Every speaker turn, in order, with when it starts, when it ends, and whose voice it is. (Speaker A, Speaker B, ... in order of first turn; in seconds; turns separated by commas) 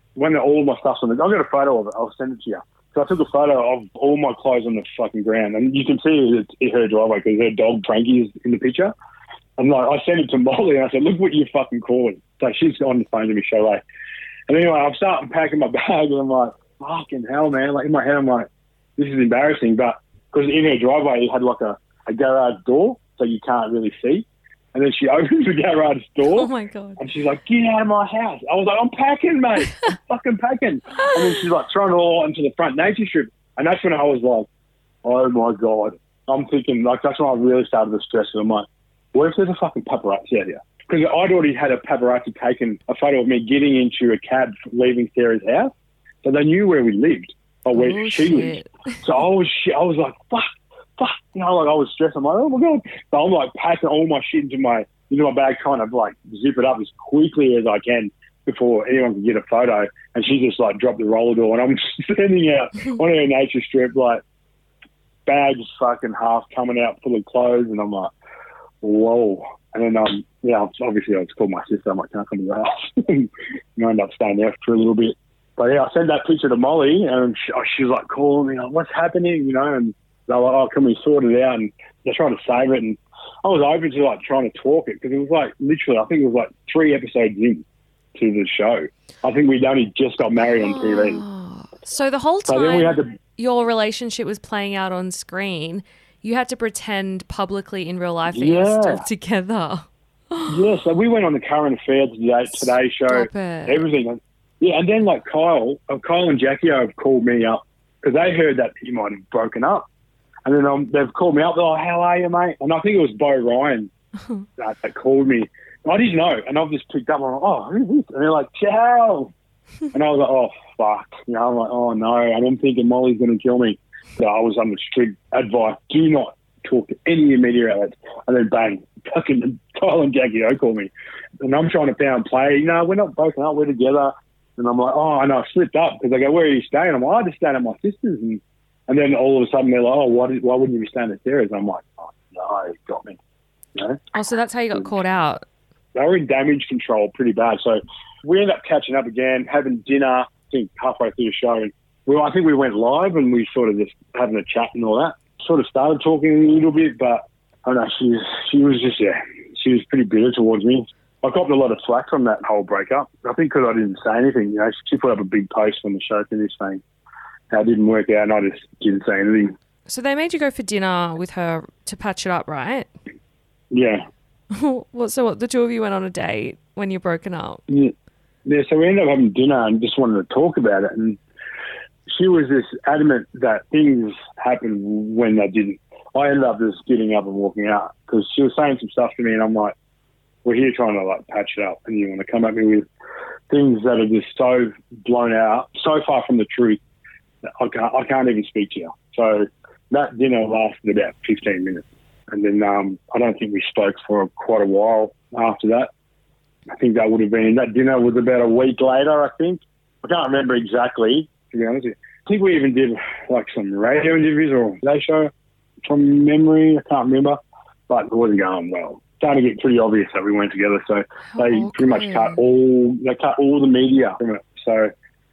Speaker A: 0.1-8.9, Speaker A: 9.6-13.8, Speaker A: 14.5-34.5, Speaker B: 26.2-27.0, Speaker A: 35.0-45.7, Speaker A: 46.2-64.2, Speaker B: 47.7-49.0, Speaker A: 65.2-68.1, Speaker A: 68.8-87.6, Speaker A: 88.1-91.2, Speaker B: 90.4-100.7, Speaker A: 92.5-93.1, Speaker A: 98.3-99.0, Speaker A: 100.5-109.9, Speaker B: 102.5-103.8, Speaker A: 110.4-113.9, Speaker A: 114.6-119.3, Speaker A: 119.9-143.2, Speaker A: 143.7-144.0, Speaker B: 144.1-145.4, Speaker A: 145.9-166.8, Speaker A: 167.5-169.5, Speaker B: 169.9-172.9, Speaker A: 173.7-174.1, Speaker B: 174.5-177.6, Speaker A: 177.7-177.9, Speaker A: 178.4-181.2, Speaker A: 182.1-189.7, Speaker A: 190.4-192.8, Speaker A: 193.5-196.8, Speaker A: 197.4-205.9, Speaker A: 206.7-215.3, Speaker A: 215.8-217.4, Speaker A: 217.9-224.9, Speaker B: 221.3-222.4